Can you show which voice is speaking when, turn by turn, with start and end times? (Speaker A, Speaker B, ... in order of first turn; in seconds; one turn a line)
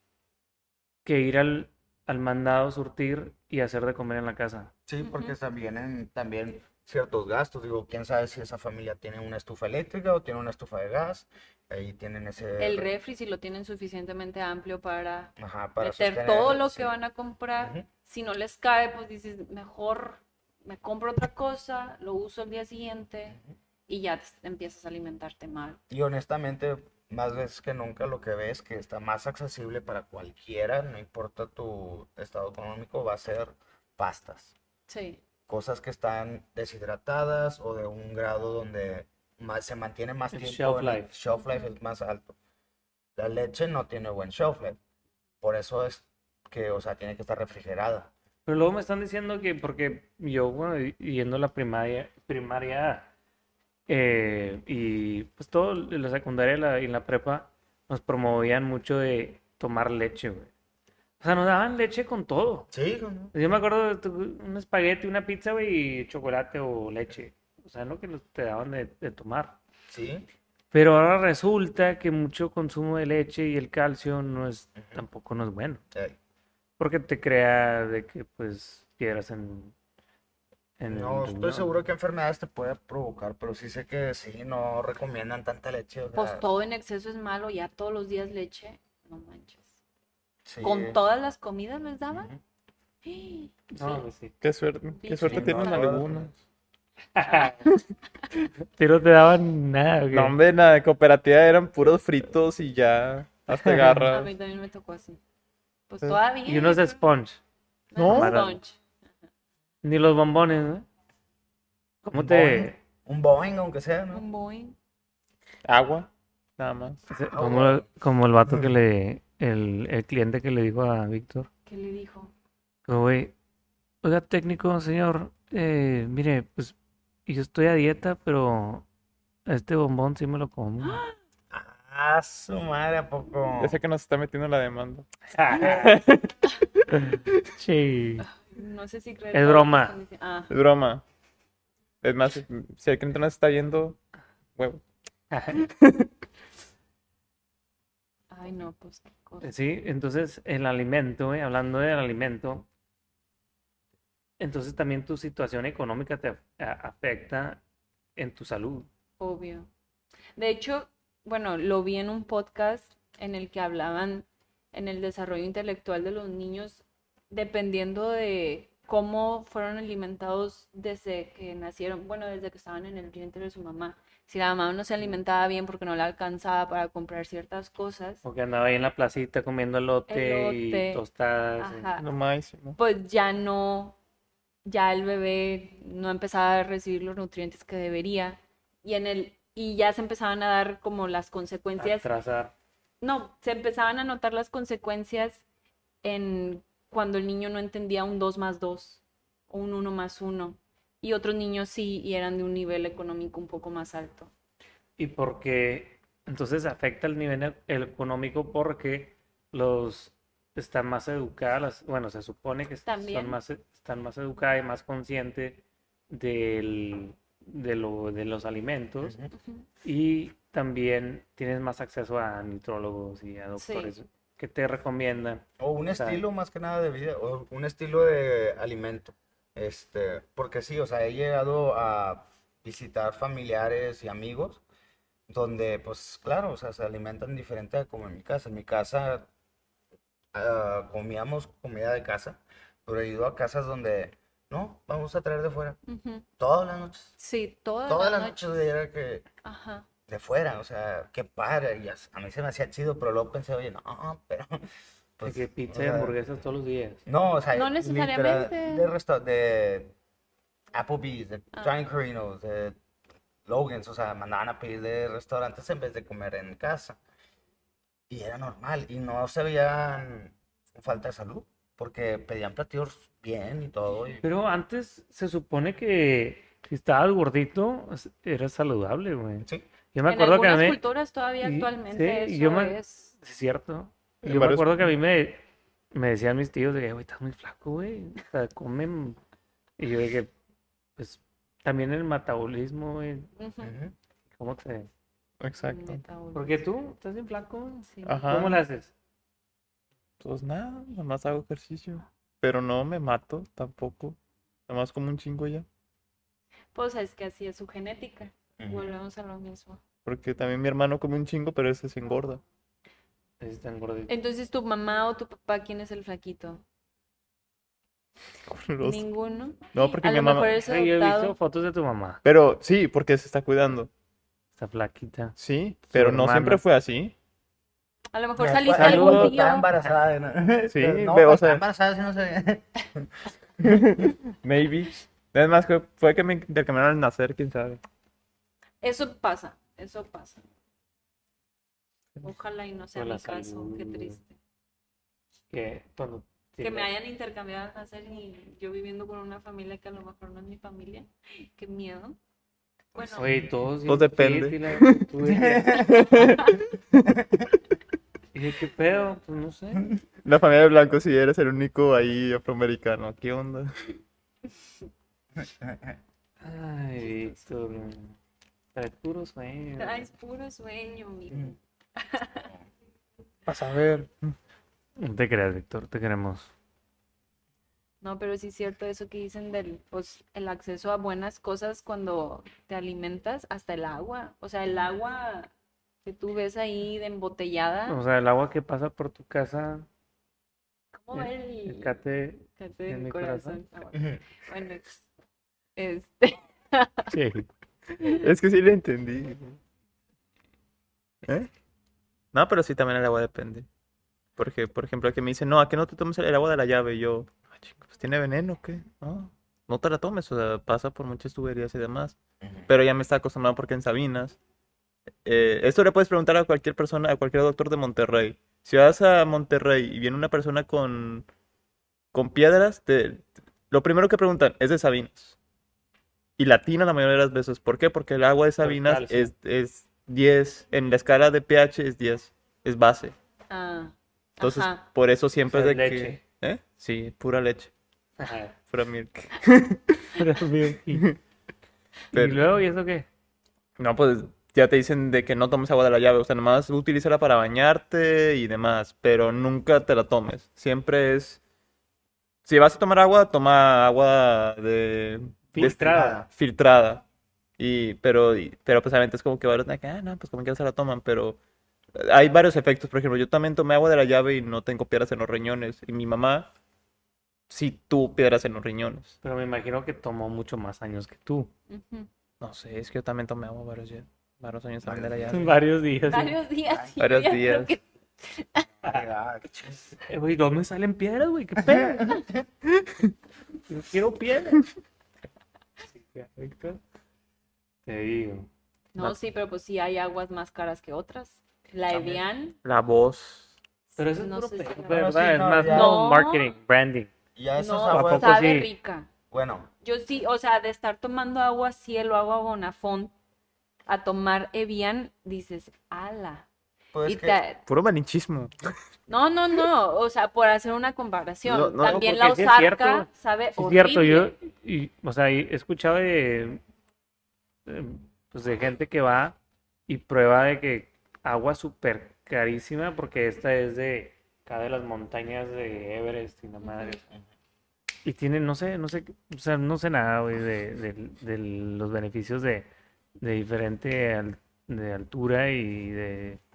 Speaker A: 1.0-4.7
Speaker B: 4.9-12.9
Speaker C: 5.0-5.3
Speaker C: 12.6-25.8
Speaker B: 15.4-16.9
Speaker B: 17.6-17.8
Speaker B: 25.9-34.5
Speaker C: 34.9-35.2
Speaker B: 35.5-42.4
Speaker A: 40.3-41.1
Speaker C: 41.3-41.7
Speaker B: 43.1-44.8
Speaker B: 45.4-48.1
Speaker A: 48.5-53.1
Speaker A: 53.9-60.5
Speaker A: 61.2-62.7
Speaker B: 62.7-63.3
Speaker A: 63.3-69.5
Speaker B: 69.9-70.3
Speaker A: 70.7-75.8
Speaker A: 76.8-79.7
Speaker A: 80.8-81.7
Speaker B: 80.9-86.4
Speaker C: 86.1-89.7
Speaker B: 90.4-91.0
Speaker C: 90.6-92.3
Speaker B: 92.1-92.4
Speaker C: 93.0-94.0
Speaker A: 93.7-94.3
Speaker D: 94.4-96.3
Speaker C: 95.0-96.1
Speaker B: 95.2-96.3
Speaker A: 97.1-97.7
Speaker A: 98.7-100.4
Speaker D: 100.1-104.3
Speaker A: 103.5-104.1
Speaker C: 104.0-105.2
Speaker C: 105.9-107.0
Speaker A: 106.4-107.4
Speaker C: 107.9-108.8
Speaker D: 108.0-108.4
Speaker A: 108.0-108.6
Speaker A: 109.8-110.8
Speaker A: 112.0-112.8
Speaker B: 112.1-114.2
Speaker C: 114.1-114.8
Speaker D: 115.6-117.0
Speaker A: 117.1-121.5
Speaker B: 117.3-117.8
Speaker C: 121.7-122.3
Speaker A: 122.9-123.3
Speaker A: 124.0-126.7
Speaker A: 127.2-128.8
Speaker A: 129.4-131.0
Speaker C: 130.8-131.1
Speaker B: 131.5-133.8
Speaker D: 133.6-136.3
Speaker A: 135.3-135.9
Speaker D: 137.1-137.4
Speaker A: 137.1-138.3
Speaker C: 138.3-140.5
Speaker A: 139.3-140.0
Speaker D: 140.5-141.0
Speaker D: 142.0-144.0
Speaker D: 144.6-144.8
Speaker A: 145.3-145.6
Speaker D: 145.6-146.1
Speaker C: 148.3-149.5
Speaker A: 149.4-152.7
Speaker A: 154.4-157.6
Speaker A: 158.2-158.9
Speaker C: 159.2-159.7
Speaker C: 160.3-178.2
Speaker A: 178.2-181.9
Speaker C: 180.1-181.0
Speaker C: 181.6-182.1
Speaker D: 182.0-182.8
Speaker C: 182.8-184.0
Speaker C: 184.6-192.1
Speaker A: 191.8-192.5
Speaker C: 193.0-195.4
Speaker C: 196.0-204.3
Speaker A: 205.0-219.2
Speaker C: 212.8-213.4
Speaker B: 219.0-219.3
Speaker C: 219.3-219.7
Speaker A: 219.8-226.2
Speaker C: 223.6-223.9
Speaker B: 225.6-234.6
Speaker B: 235.3-239.3
Speaker B: 240.3-245.8
Speaker C: 245.8-246.2
Speaker B: 246.4-247.1
Speaker C: 247.2-248.4
Speaker B: 247.9-249.2
Speaker C: 249.4-249.9
Speaker B: 250.1-256.1
Speaker A: 255.2-257.0
Speaker B: 257.1-259.9
Speaker C: 257.5-258.9
Speaker B: 260.7-262.8
Speaker B: 263.4-267.0
Speaker B: 268.1-274.2
Speaker A: 274.2-280.8
Speaker C: 280.1-283.1
Speaker A: 281.4-289.2
Speaker D: 284.2-284.9
Speaker A: 289.8-290.3
Speaker A: 291.0-293.3
Speaker C: 293.4-293.7
Speaker B: 293.6-293.9
Speaker A: 294.3-294.9
Speaker D: 295.4-296.0
Speaker C: 295.6-296.6
Speaker A: 296.3-298.9
Speaker C: 297.9-298.4
Speaker D: 298.0-298.6
Speaker D: 300.2-305.6
Speaker C: 306.7-309.8
Speaker B: 308.6-308.9
Speaker D: 310.0-312.4
Speaker A: 313.4-314.1
Speaker C: 314.1-316.6
Speaker D: 318.4-319.0
Speaker C: 318.8-321.4
Speaker D: 319.7-320.5
Speaker A: 320.6-322.2
Speaker D: 322.2-323.9
Speaker A: 324.6-326.6
Speaker D: 325.4-327.1
Speaker C: 328.1-329.7
Speaker B: 328.4-334.1
Speaker A: 328.8-329.5
Speaker D: 330.7-331.6
Speaker D: 333.6-337.8
Speaker C: 338.8-340.4
Speaker C: 342.2-344.3
Speaker A: 342.9-344.2
Speaker A: 345.5-346.9
Speaker C: 346.6-352.2
Speaker C: 352.9-353.4
Speaker A: 353.1-355.8
Speaker D: 353.9-355.1
Speaker B: 355.2-356.0
Speaker D: 355.7-357.1
Speaker B: 357.1-357.4
Speaker A: 358.3-359.9
Speaker D: 360.2-364.0
Speaker B: 365.4-365.9
Speaker A: 366.4-368.2
Speaker A: 368.7-370.1
Speaker C: 369.8-372.5
Speaker D: 373.4-374.4
Speaker A: 375.0-376.5
Speaker C: 378.0-385.5
Speaker C: 386.0-388.0
Speaker A: 387.9-389.9
Speaker C: 390.9-392.0
Speaker A: 391.1-393.6
Speaker C: 392.6-395.1
Speaker B: 393.9-394.2
Speaker C: 395.8-397.1
Speaker A: 397.1-397.5
Speaker D: 398.0-399.6
Speaker D: 402.3-403.7
Speaker D: 404.4-414.4
Speaker B: 412.4-412.7
Speaker D: 415.2-421.3
Speaker D: 422.1-425.4
Speaker D: 426.4-433.1
Speaker A: 428.6-429.3
Speaker C: 433.5-434.8
Speaker D: 434.4-437.7
Speaker A: 435.5-436.2
Speaker A: 438.2-438.6
Speaker D: 438.6-440.2
Speaker A: 440.1-441.1
Speaker D: 440.9-441.2
Speaker A: 442.1-443.1
Speaker D: 442.1-442.4
Speaker D: 443.8-451.4
Speaker D: 452.4-457.0
Speaker A: 455.5-456.2
Speaker B: 455.6-456.2
Speaker D: 457.6-461.4
Speaker D: 461.9-466.5
Speaker D: 467.5-469.1
Speaker A: 469.2-471.5
Speaker C: 471.7-472.1
Speaker D: 472.4-475.5
Speaker B: 474.8-475.5
Speaker A: 475.3-476.4
Speaker C: 476.1-478.6
Speaker B: 476.7-477.0
Speaker D: 477.0-477.7
Speaker B: 478.8-480.0
Speaker A: 480.1-482.2
Speaker B: 481.6-482.4
Speaker A: 483.7-484.6
Speaker A: 485.9-486.8
Speaker A: 487.9-488.5
Speaker C: 488.9-492.6
Speaker D: 492.6-493.5
Speaker C: 493.9-496.5
Speaker A: 494.0-497.1
Speaker B: 494.9-495.9
Speaker B: 497.4-498.5
Speaker C: 497.6-499.1
Speaker A: 497.9-498.7
Speaker B: 499.3-499.7
Speaker C: 499.8-503.1
Speaker C: 503.9-506.5
Speaker B: 506.9-507.4
Speaker C: 507.0-507.6
Speaker D: 507.7-508.7
Speaker C: 509.1-514.3
Speaker D: 511.4-512.1
Speaker A: 511.8-516.6
Speaker A: 517.6-519.4
Speaker A: 519.9-527.0
Speaker C: 526.6-527.0
Speaker A: 528.0-532.7
Speaker A: 533.2-536.4